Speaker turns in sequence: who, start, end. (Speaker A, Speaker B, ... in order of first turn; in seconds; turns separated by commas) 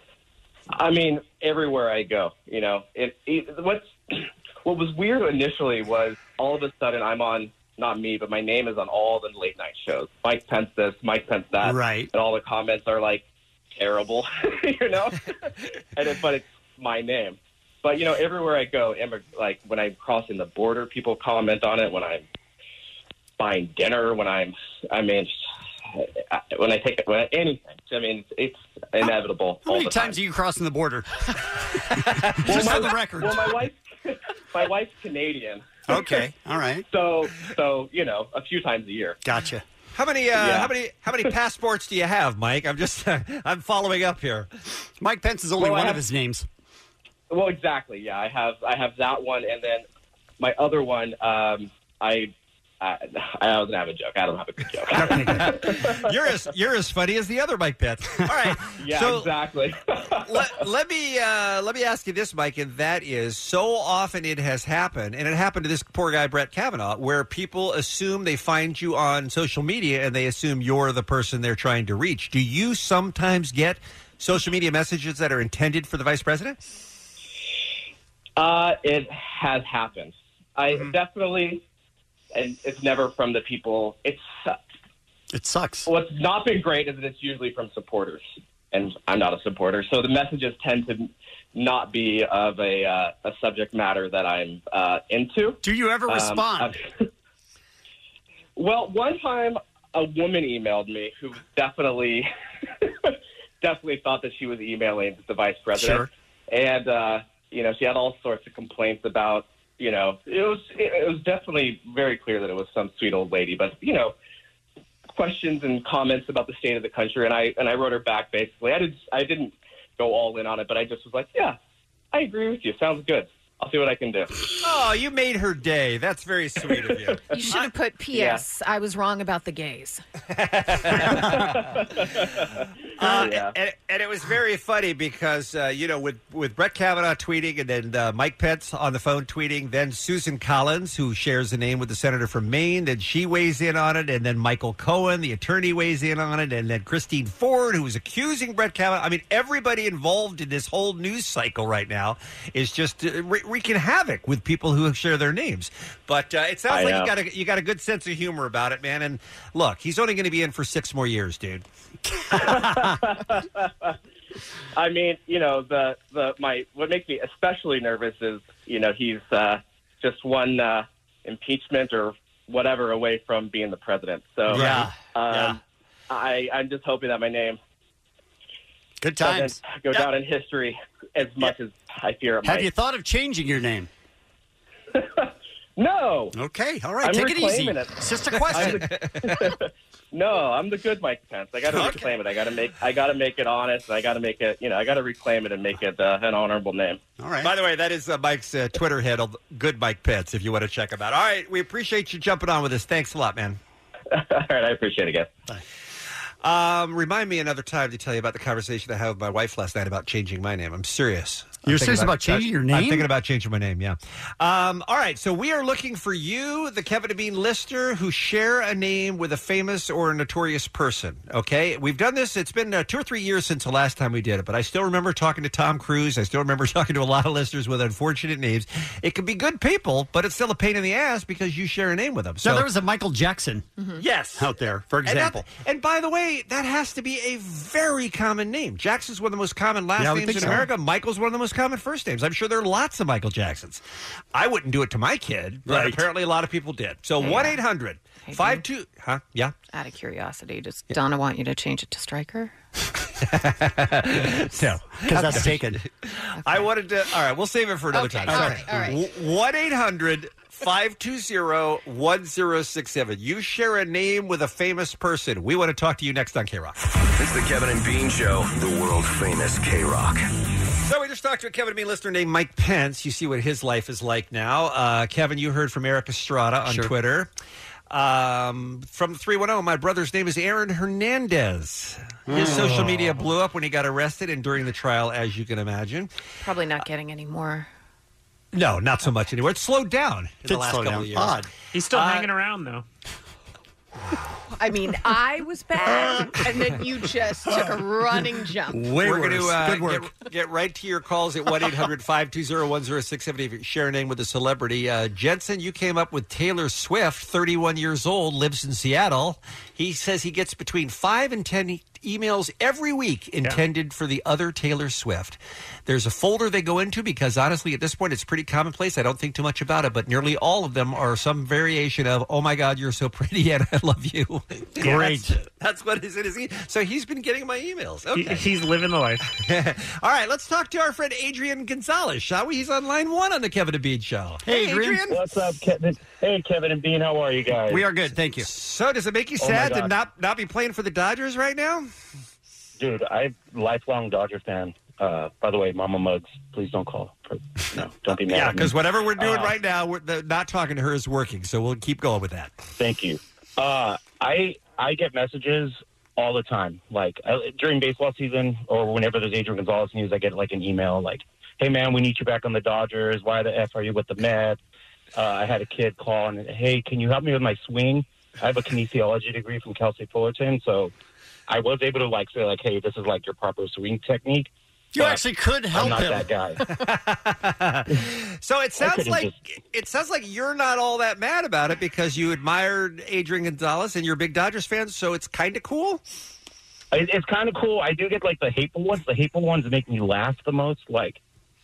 Speaker A: 0.7-13.2, Speaker B: 11.6-12.1, Speaker A: 13.8-22.3, Speaker A: 23.4-25.4, Speaker A: 25.9-30.2, Speaker B: 29.7-33.5, Speaker C: 32.1-32.5, Speaker A: 32.5-35.7, Speaker B: 35.9-36.9, Speaker A: 36.9-39.2, Speaker B: 39.2-39.6, Speaker C: 40.0-44.5, Speaker A: 40.4-40.7, Speaker B: 45.0-46.5, Speaker A: 45.6-46.0, Speaker A: 47.3-49.9, Speaker A: 50.4-56.1, Speaker B: 54.9-55.6, Speaker C: 55.8-59.3, Speaker A: 58.8-60.6, Speaker C: 60.2-76.6, Speaker A: 78.4-81.6, Speaker A: 82.3-84.6, Speaker B: 85.3-85.9, Speaker A: 85.9-96.8, Speaker B: 95.6-96.7, Speaker A: 98.6-102.3, Speaker A: 102.8-114.1, Speaker B: 105.8-106.1, Speaker A: 115.1-121.6, Speaker A: 122.1-124.3, Speaker C: 124.6-127.6, Speaker D: 127.3-130.0, Speaker A: 128.1-128.4, Speaker C: 130.3-131.4, Speaker A: 131.1-132.5, Speaker C: 133.0-161.7, Speaker A: 133.0-133.5, Speaker A: 156.7-157.1, Speaker B: 162.3-162.9, Speaker A: 162.3-164.0, Speaker A: 164.8-175.6, Speaker B: 174.5-175.5, Speaker C: 174.5-174.9, Speaker A: 176.1-177.6, Speaker B: 179.0-180.1, Speaker A: 179.2-182.7, Speaker B: 182.4-183.9, Speaker A: 184.9-186.3, Speaker B: 186.3-188.9, Speaker A: 187.0-188.0, Speaker C: 188.5-188.8, Speaker A: 188.5-197.0, Speaker B: 197.2-197.5, Speaker C: 197.4-203.6, Speaker A: 204.1-205.3, Speaker C: 206.4-232.7, Speaker B: 211.7-213.1, Speaker B: 232.4-233.7, Speaker C: 234.0-234.5, Speaker B: 234.4-235.4, Speaker C: 235.0-243.8, Speaker B: 240.0-240.7, Speaker C: 244.3-249.5, Speaker B: 245.7-246.0, Speaker D: 247.2-247.6, Speaker D: 248.2-248.6, Speaker D: 249.7-252.5, Speaker C: 253.3-266.8, Speaker B: 255.0-255.8, Speaker D: 256.4-256.7, Speaker D: 257.9-259.0, Speaker B: 258.3-258.7, Speaker E: 267.2-270.2, Speaker C: 270.9-277.3, Speaker B: 276.6-276.9, Speaker C: 277.9-286.1, Speaker B: 282.3-283.2, Speaker D: 286.4-287.7, Speaker C: 288.5-292.3, Speaker B: 290.5-291.5, Speaker F: 291.7-292.9, Speaker D: 294.5-298.9, Speaker B: 298.7-300.1, Speaker C: 299.0-328.5, Speaker B: 324.8-325.4, Speaker F: 328.1-329.2, Speaker C: 329.3-335.2, Speaker B: 334.4-335.1, Speaker G: 335.1-337.8, Speaker B: 337.7-338.5, Speaker C: 338.4-341.9, Speaker G: 339.4-339.9, Speaker G: 342.8-349.5, Speaker C: 348.3-352.6, Speaker G: 352.8-364.6, Speaker G: 365.1-370.9, Speaker G: 371.5-375.2, Speaker B: 374.9-376.3, Speaker G: 375.7-376.6, Speaker C: 376.8-386.0, Speaker G: 378.8-379.3, Speaker G: 386.9-391.2